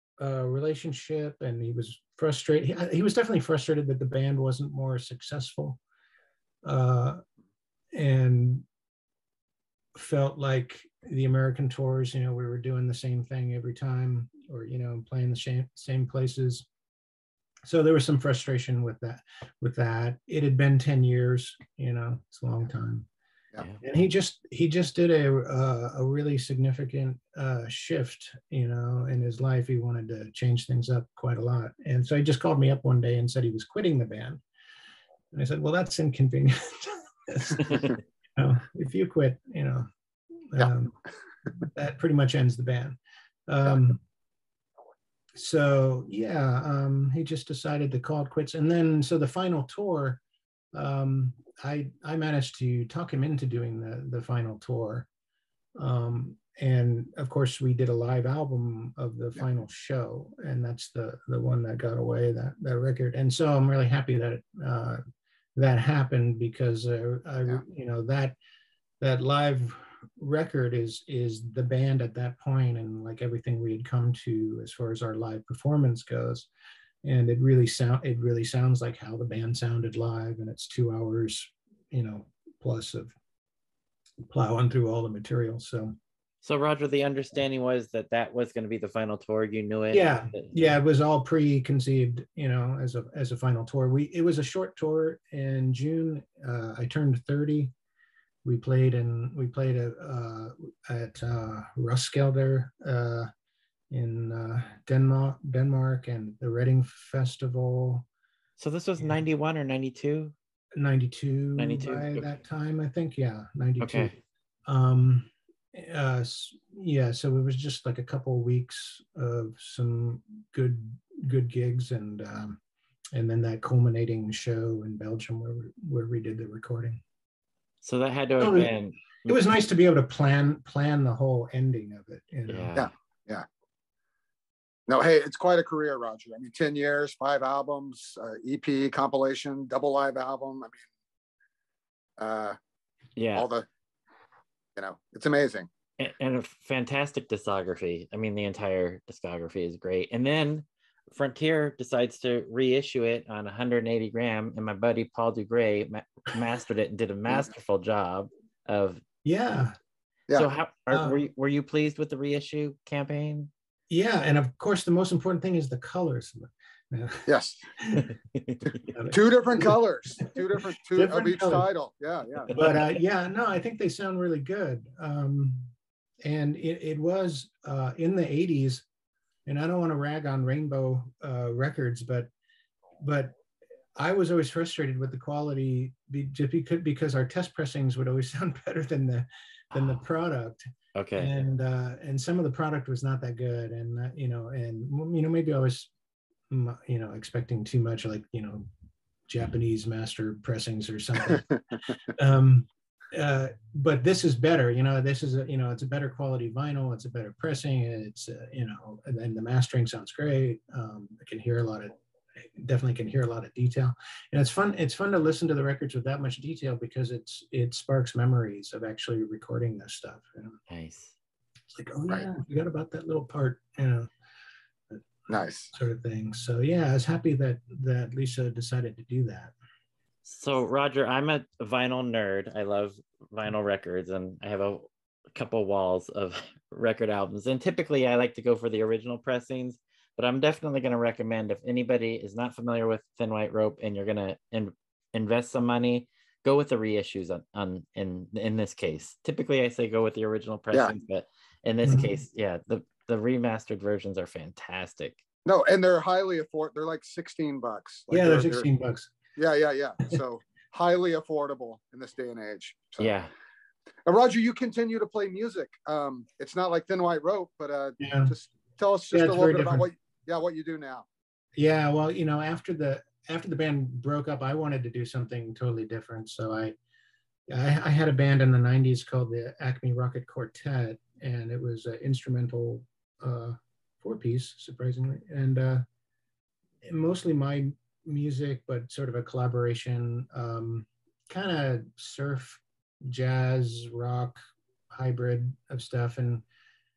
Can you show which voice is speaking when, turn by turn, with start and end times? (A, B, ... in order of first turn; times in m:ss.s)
0:00.2-0:05.8 A
0:06.6-0:07.2 A
0:07.9-0:08.6 A
0:09.9-0:16.6 A
0:17.6-0:23.1 A
0:23.8-0:34.4 A
0:35.3-0:39.9 A
0:40.5-0:40.9 A
0:41.6-0:44.0 A
0:45.3-0:50.2 A
0:50.7-0:55.1 A
0:55.8-1:05.0 A
1:05.6-1:08.4 A
1:09.0-1:16.5 A
1:17.0-1:23.1 A
1:24.3-1:26.0 A
1:26.4-1:30.8 B
1:29.9-1:37.7 A
1:38.4-1:43.3 A
1:43.9-1:48.0 A
1:48.6-1:50.3 B
1:50.8-2:02.6 A
1:51.6-1:52.3 B
1:53.8-1:54.2 B
2:03.1-2:07.0 A
2:07.8-2:09.4 B
2:08.4-2:08.7 A
2:09.2-2:12.8 A
2:12.5-2:12.9 B
2:12.7-2:13.4 C
2:14.9-2:20.8 C
2:22.2-2:22.6 C
2:23.2-2:23.5 B
2:23.4-2:23.7 C
2:24.8-2:25.7 C
2:26.0-2:39.0 B
2:39.2-2:39.8 A
2:40.3-2:43.5 B
2:40.9-2:41.1 A
2:43.9-2:48.1 A
2:47.3-2:47.6 C
2:48.0-2:48.8 B
2:48.9-2:51.7 A
2:49.1-2:52.7 C
2:52.5-2:58.8 A
2:59.4-3:02.3 A
3:03.0-3:03.3 A
3:04.0-3:10.6 A
3:10.9-3:11.3 B
3:11.2-3:15.9 A
3:16.5-3:18.7 A
3:19.3-3:21.4 A
3:22.1-3:40.6 A
3:40.7-3:41.1 B
3:41.7-3:44.1 A
3:44.9-3:49.5 A
3:45.3-3:45.7 C
3:50.2-4:15.2 B
4:11.8-4:12.1 A
4:15.4-4:18.7 C
4:18.1-4:19.1 A
4:19.4-4:23.1 C
4:23.0-4:23.3 B
4:24.0-4:31.0 C
4:28.0-4:28.3 A
4:29.1-4:29.9 A
4:31.6-4:36.8 A
4:37.5-4:45.8 A
4:46.8-4:54.4 A
4:54.9-4:56.4 A